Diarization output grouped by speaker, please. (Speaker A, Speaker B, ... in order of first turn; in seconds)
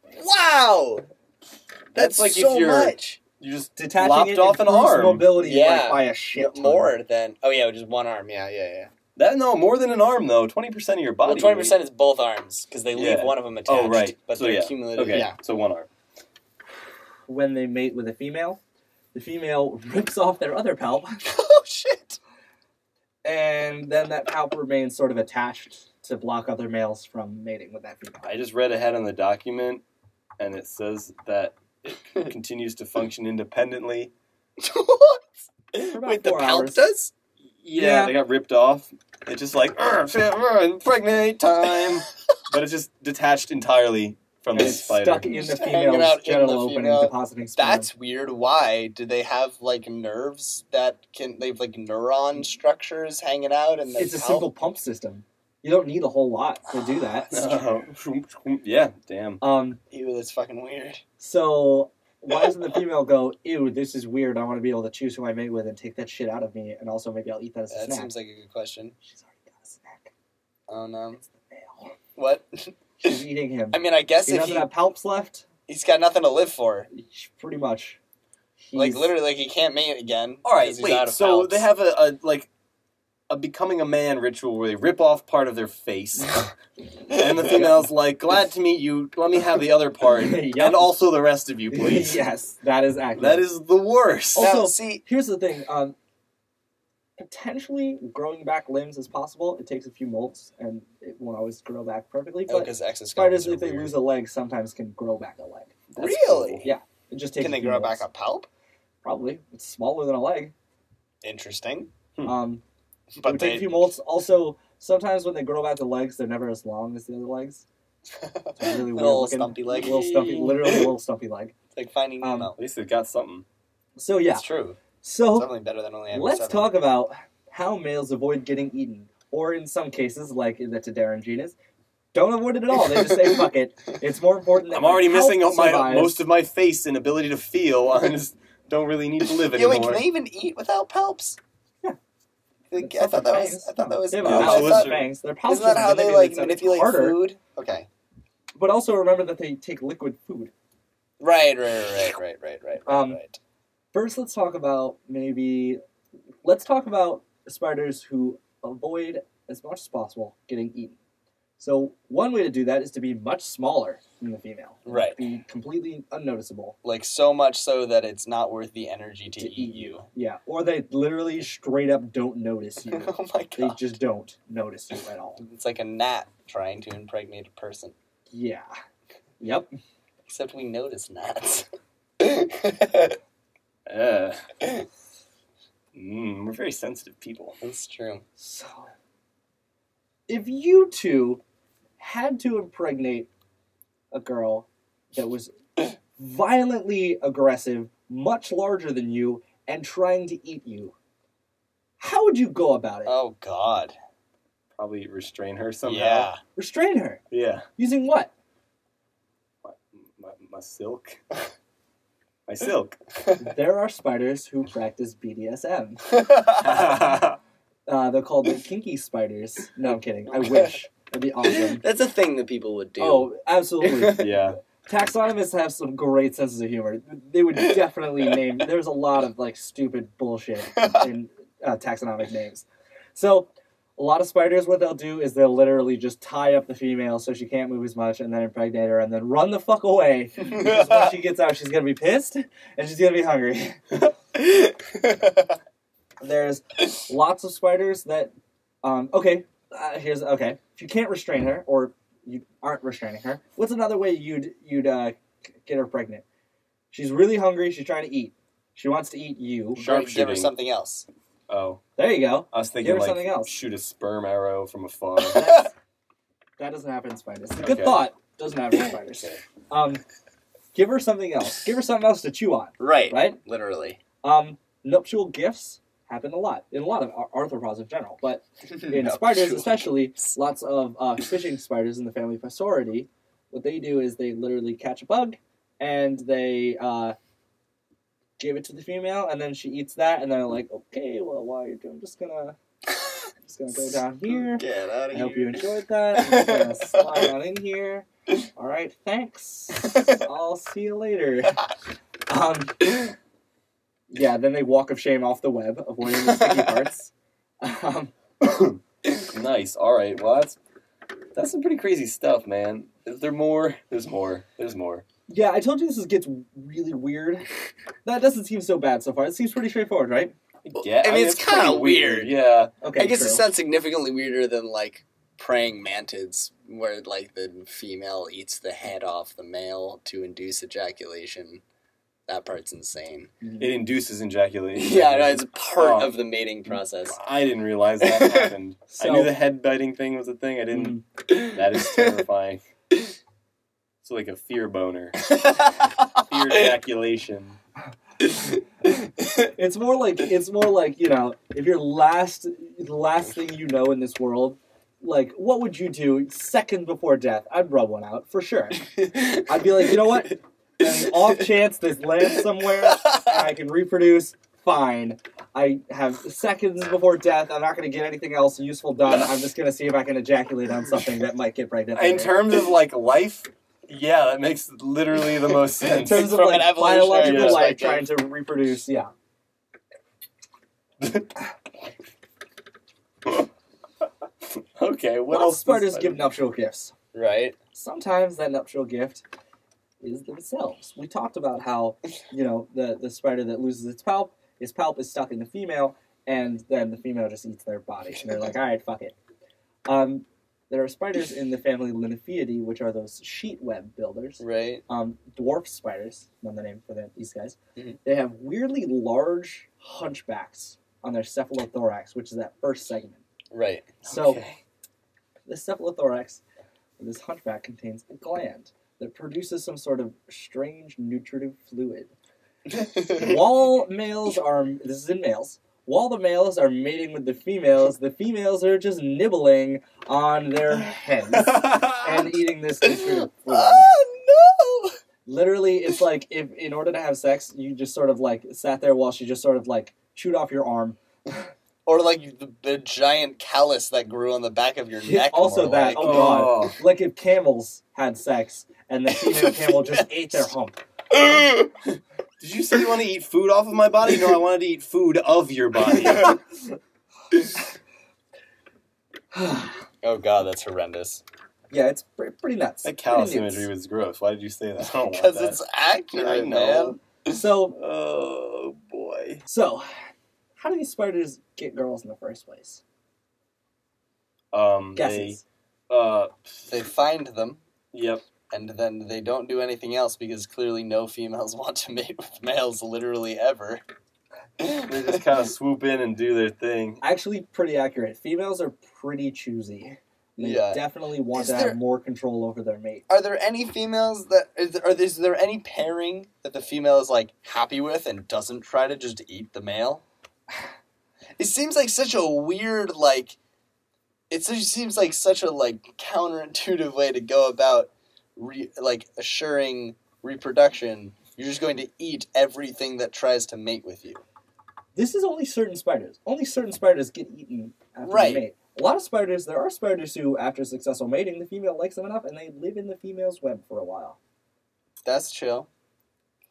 Speaker A: 0.1-1.1, 1.9-3.2, 5.4-8.9, 11.2-15.4, 21.2-22.2, 34.6-37.1, 45.3-54.5, 59.9-61.0, 67.7-69.0, 70.7-71.2, 72.2-73.2, 73.7-74.7, 75.7-76.9, 78.7-81.7, 94.4-95.0, 102.5-104.0, 106.0-106.7, 107.4-108.5, 111.2-111.9, 113.2-113.9, 118.2-120.0, 121.7-122.6, 124.3-124.8, 125.3-126.8, 132.8-133.4, 139.4-141.4, 142.7-147.9, 151.2-153.4, 164.9-165.2, 166.8-170.1, 172.9-173.8, 175.4-177.9, 180.3-181.7, 182.2-183.2, 187.6-188.2, 203.1-203.9, 205.8-206.4, 216.1-216.6, 220.3-220.7, 221.5-224.3, 230.8-231.1, 240.6-241.0, 244.4-245.5, 259.8-261.1, 272.8-274.0, 278.7-280.3, 294.3-297.3, 299.8-300.2, 306.1-306.8, 320.8-322.3, 322.9-331.6, 332.3-333.3, 334.8-337.2, 338.0-338.5, 341.3-342.2, 345.3-346.7, 359.0-359.9, 361.1-361.4, 363.0-363.3, 376.0-378.1, 387.1-387.6, 404.4-404.8, 413.5-413.9, 422.7-423.4, 432.8-435.0, 441.9-446.6, 449.2-450.5, 451.1-451.7, 455.9-456.4, 460.0-461.2, 464.8-467.0, 476.7-477.6, 478.5-483.8, 484.6-485.2, 490.4-491.8, 493.1-500.0, 501.4-503.4, 504.3-514.2, 518.1-518.4, 525.0-525.7
Speaker B: 1.9-5.3, 9.2-11.8, 12.9-15.9, 28.2-29.8, 30.4-34.1, 37.6-45.3, 57.3-59.4, 80.4-82.5, 83.3-86.5, 87.1-92.2, 93.2-94.5, 105.9-106.7, 119.8-120.8, 122.6-123.5, 134.7-140.1, 144.2-145.1, 183.9-184.5, 185.9-187.6, 204.8-206.3, 207.3-207.7, 209.6-211.2, 212.5-213.0, 216.6-217.4, 224.2-224.6, 259.8-260.5, 261.5-261.8, 262.5-265.4, 267.6-268.0, 308.4-310.6, 311.4-315.0, 320.6-322.7, 333.6-336.2, 337.1-342.6, 344.0-345.3, 346.2-347.6, 371.9-376.3, 377.2-377.7, 381.0-381.3, 384.6-386.3, 414.0-414.6, 431.3-432.2, 445.9-446.8, 452.4-456.4, 462.8-465.6, 466.1-467.0, 467.8-469.4, 474.5-476.6, 477.9-478.2, 484.9-487.0
Speaker C: 3.8-6.9, 17.3-18.6, 19.1-21.2, 23.2-28.3, 35.9-36.8, 37.7-38.1, 44.5-47.9, 54.0-57.6, 59.4-59.8, 61.2-68.1, 69.0-70.1, 71.2-71.9, 73.0-75.5, 76.9-78.0, 78.6-79.1, 90.2-91.0, 91.7-93.5, 94.4-96.0, 97.2-105.7, 106.6-108.0, 109.0-110.5, 112.2-112.6, 113.2-117.7, 118.6-121.5, 122.2-122.5, 124.0-124.4, 125.0-125.5, 126.1-131.6, 132.1-136.2, 142.8-147.2, 148.6-150.5, 152.9-153.2, 153.9-155.8, 156.4-161.0, 161.6-166.8, 169.4-175.4, 178.3-178.7, 179.4-179.7, 188.4-188.9, 190.3-191.4, 192.0-193.3, 194.1-195.6, 196.2-200.9, 202.0-203.2, 206.6-207.2, 207.8-208.3, 213.4-216.1, 216.7-217.0, 217.9-221.8, 223.0-243.8, 246.2-256.2, 256.9-259.9, 262.0-263.5, 265.3-265.7, 266.6-270.0, 270.7-273.4, 274.2-287.2, 288.4-292.6, 293.4-301.6, 302.3-303.0, 304.1-308.1, 315.3-317.5, 318.1-320.3, 322.8-323.5, 333.4-333.7, 338.9-339.4, 340.7-341.0, 349.6-372.4, 375.8-379.1, 385.3-386.9, 387.7-389.2, 390.0-399.1, 399.9-413.2, 414.1-414.4, 415.5-416.4, 417.0-422.1, 423.0-434.0, 435.3-441.0, 445.0-450.8, 459.3-459.8, 461.7-463.7, 467.3-467.8, 469.5-469.9, 470.6-472.8, 475.0-475.4, 487.0-493.0, 515.0-524.2